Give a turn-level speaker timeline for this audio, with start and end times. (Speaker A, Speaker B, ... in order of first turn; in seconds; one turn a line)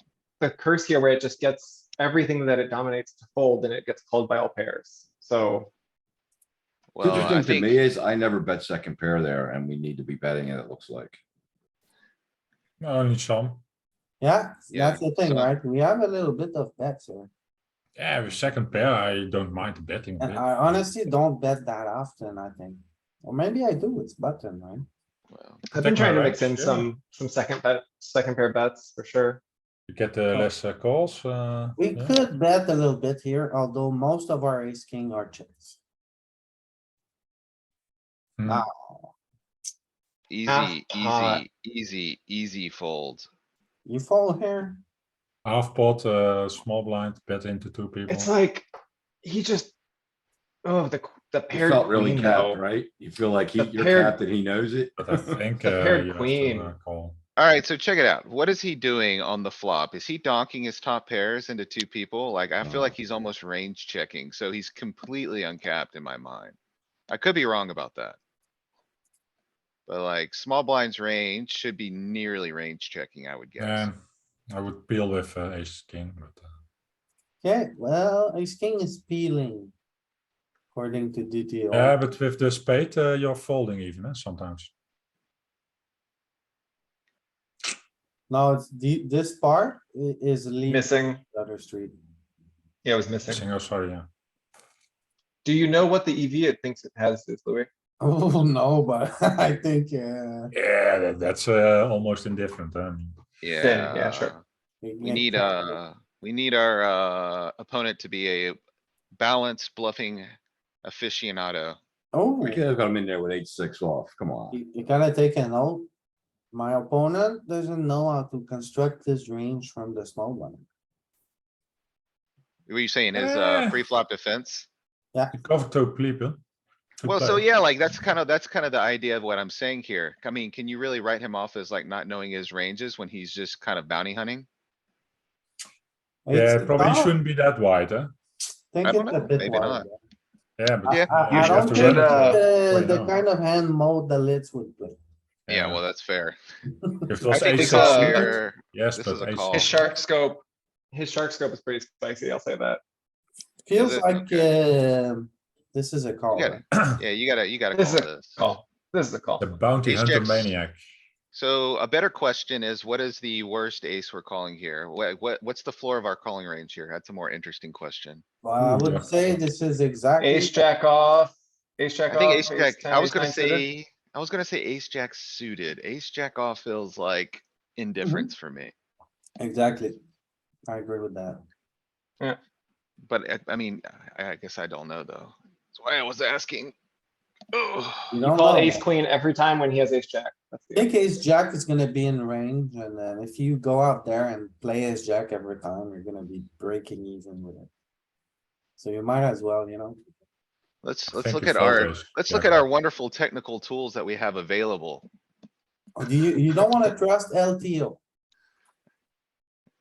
Speaker A: 0.4-5.7
Speaker B: 7.0-7.8
Speaker C: 7.0-11.2
Speaker D: 12.8-13.6
Speaker E: 14.2-17.3
Speaker B: 14.7-15.5
Speaker D: 18.0-20.8
Speaker E: 20.2-24.9
Speaker B: 25.3-25.6
Speaker A: 25.7-29.4
Speaker D: 25.7-26.9
Speaker D: 29.9-32.2
Speaker E: 31.8-35.8
Speaker D: 38.4-38.6
Speaker E: 38.5-39.1
Speaker B: 40.3-43.3
Speaker A: 40.5-41.4
Speaker E: 43.9-44.8
Speaker D: 45.5-48.3
Speaker A: 48.1-48.7
Speaker A: 49.2-49.7
Speaker A: 50.6-52.6
Speaker C: 51.5-55.4
Speaker A: 53.6-54.2
Speaker D: 55.0-57.2
Speaker A: 55.6-56.7
Speaker B: 57.4-66.6
Speaker C: 62.6-63.0
Speaker B: 67.1-68.2
Speaker B: 69.9-73.9
Speaker D: 73.6-74.0
Speaker D: 74.5-76.5
Speaker E: 77.4-79.7
Speaker E: 80.7-82.0
Speaker D: 81.7-84.7
Speaker E: 88.3-91.9
Speaker A: 90.7-91.2
Speaker A: 92.8-93.5
Speaker D: 93.3-94.1
Speaker A: 95.4-97.7
Speaker E: 98.0-100.5
Speaker D: 100.5-103.2
Speaker B: 103.4-104.4
Speaker A: 103.6-104.3
Speaker E: 104.8-105.8
Speaker B: 105.0-108.6
Speaker B: 109.2-110.3
Speaker B: 110.8-111.8
Speaker E: 112.1-112.6
Speaker C: 112.4-114.6
Speaker E: 114.5-115.9
Speaker E: 116.5-120.6
Speaker B: 122.7-124.7
Speaker D: 123.1-123.8
Speaker D: 125.3-126.4
Speaker D: 127.0-127.4
Speaker B: 127.1-134.5
Speaker E: 136.3-137.2
Speaker D: 136.3-138.1
Speaker E: 138.7-140.0
Speaker B: 138.8-139.9
Speaker D: 140.6-143.2
Speaker E: 140.8-145.0
Speaker B: 140.9-142.4
Speaker D: 145.5-145.8
Speaker B: 145.5-146.4
Speaker E: 146.8-147.3
Speaker D: 147.1-149.8
Speaker B: 147.3-149.7
Speaker A: 147.4-148.3
Speaker E: 148.0-148.2
Speaker A: 149.5-152.8
Speaker E: 153.7-156.6
Speaker B: 153.8-154.5
Speaker B: 156.3-158.4
Speaker A: 157.7-159.5
Speaker D: 159.4-160.8
Speaker B: 159.8-160.5
Speaker B: 161.3-168.2
Speaker E: 168.4-170.6
Speaker D: 168.6-169.4
Speaker A: 170.2-173.7
Speaker B: 172.1-178.7
Speaker E: 178.0-178.3
Speaker E: 179.4-180.0
Speaker E: 180.7-181.4
Speaker B: 183.1-186.7
Speaker B: 187.5-188.2
Speaker E: 188.1-188.8
Speaker A: 188.2-191.2
Speaker E: 190.8-197.7
Speaker E: 198.8-200.0
Speaker B: 200.8-205.1
Speaker D: 201.1-202.6
Speaker E: 206.0-208.0